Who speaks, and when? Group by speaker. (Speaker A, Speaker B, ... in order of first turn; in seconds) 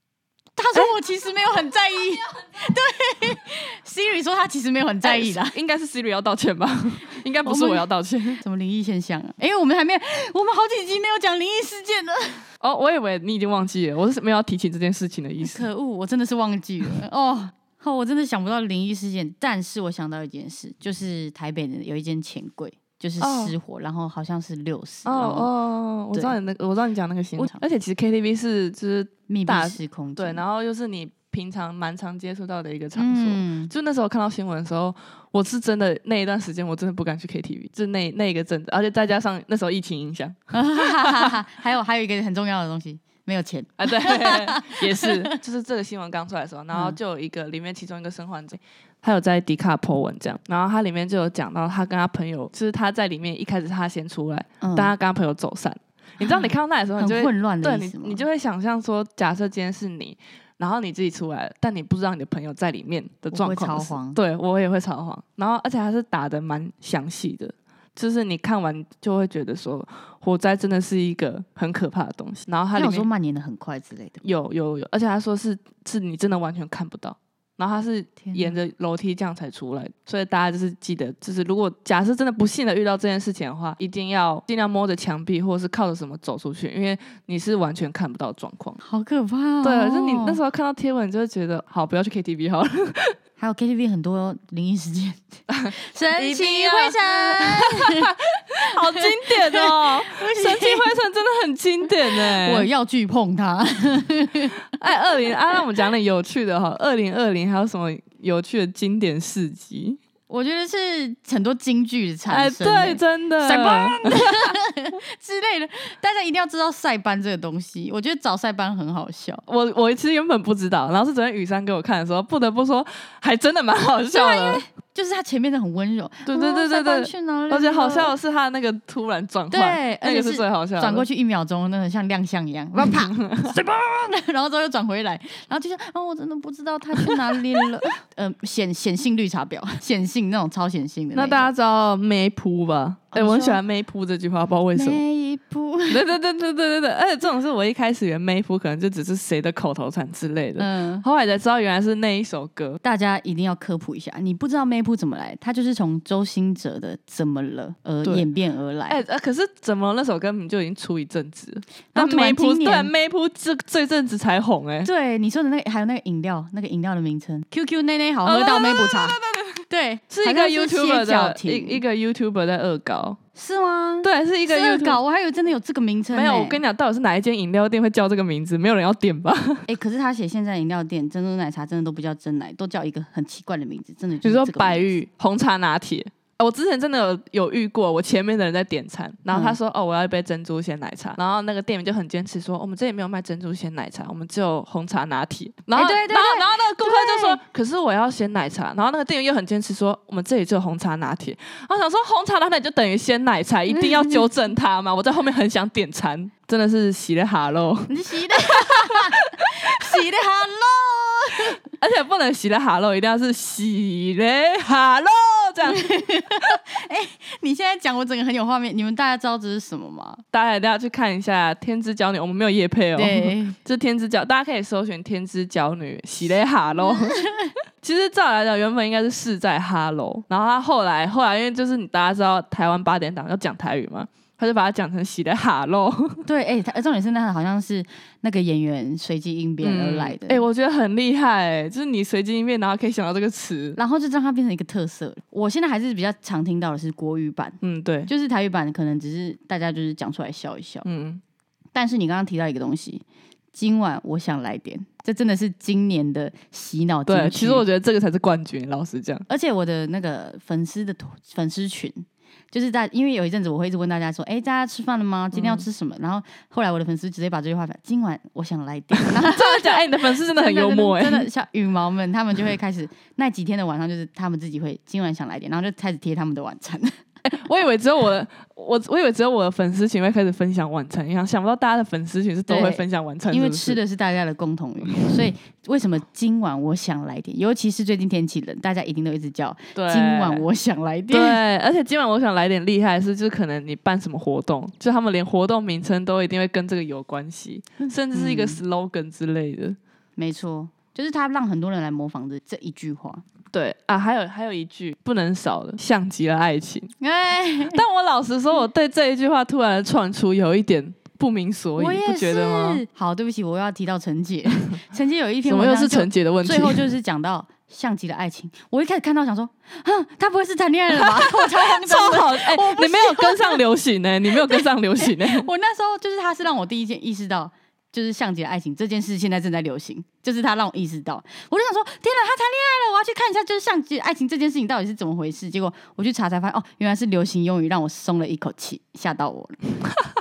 Speaker A: 0.6-5.6, 7.4-7.8, 8.4-12.4, 15.4-25.5, 27.4-27.6, 29.3-30.4, 33.0-33.7, 40.5-45.3, 46.7-47.0, 54.6-54.9, 56.2-58.2, 63.3-64.2, 72.7-74.2, 78.2-78.6, 88.8-90.4, 93.4-98.1, 98.6-100.9, 102.0-104.6, 110.3-119.4, 124.1-128.1, 129.5-141.5, 143.1-143.6, 144.7-146.1, 150.6-151.1, 152.8-159.0, 161.9-162.9, 164.8-171.8, 173.3-176.6, 179.7-185.0, 189.3-189.6, 195.7-197.4, 207.9-211.6, 215.7-220.2, 222.9-223.6, 226.9-227.6, 236.2-240.4, 243.8-250.8, 251.7-257.6, 259.3-277.0, 282.5-291.4, 297.8-298.6, 300.2-303.2, 307.0-307.8, 311.8-323.6, 324.3-339.6
Speaker B: 5.0-8.4, 12.6-15.6, 23.2-23.6, 25.1-41.4, 43.8-73.1, 74.2-88.8, 89.6-93.1, 95.5-102.7, 104.6-110.0, 112.3-114.6, 119.5-124.6, 126.2-131.1, 132.8-133.5, 137.0-137.4, 141.1-145.0, 145.9-152.8, 158.9-164.9, 168.2-173.2, 174.0-175.0, 176.1-179.6, 184.2-210.0, 211.7-216.1, 220.3-227.2, 227.8-236.2, 239.6-243.8, 247.6-248.1, 250.8-251.2, 257.1-259.2, 265.3-265.7, 269.0-271.3, 277.2-283.8, 289.7-290.4, 291.1-299.8, 303.5-306.9, 307.7-312.8, 315.4-316.8, 320.9-325.5